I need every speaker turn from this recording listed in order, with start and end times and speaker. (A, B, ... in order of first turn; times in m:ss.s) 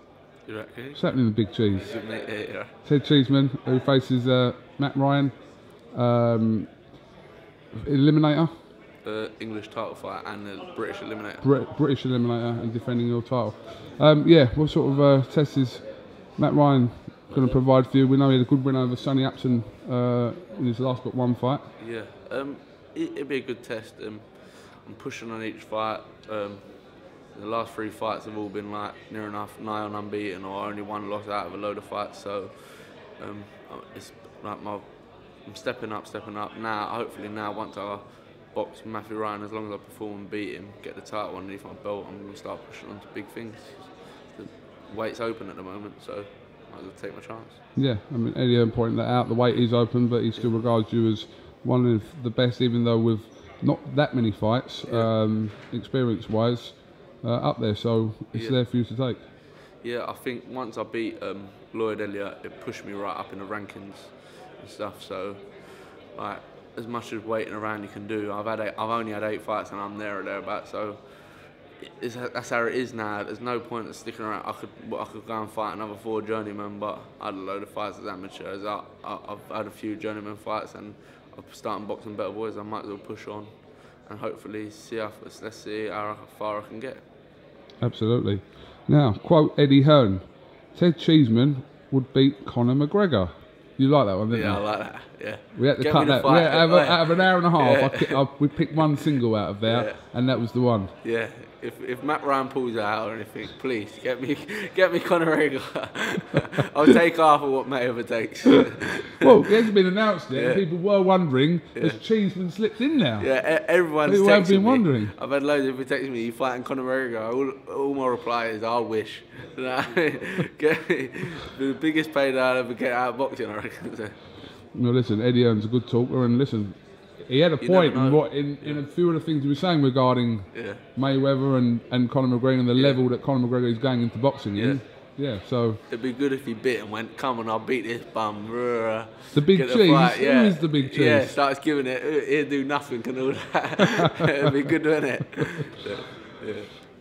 0:00.4-0:01.1 A
0:00.9-0:01.9 B
0:01.7-0:02.7 A
0:02.8-0:06.8 B
0:07.7-0:08.5 B
0:09.0-0:11.5 A
0:11.4-0:21.7 B
0:21.8-0:47.6 A
0:47.7-0:59.2 B
0:54.8-0:55.1 A
0:58.3-0:58.6 A
0:59.7-1:27.0 A
1:27.8-1:34.9 B
1:34.3-1:39.1 A
1:35.5-1:40.9 B
1:39.6-1:40.1 A
1:41.0-1:49.3 A
1:49.2-1:53.4 B
1:50.3-1:50.7 A
1:51.7-1:52.0 A
1:53.2-2:04.5 A
1:54.0-1:55.1 B
2:04.7-2:15.8 B
2:07.6-2:08.8 A
2:10.5-2:10.8 A
2:12.7-2:13.0 A
2:14.5-2:14.9 A
2:15.9-2:26.7 A
2:19.3-2:21.4 B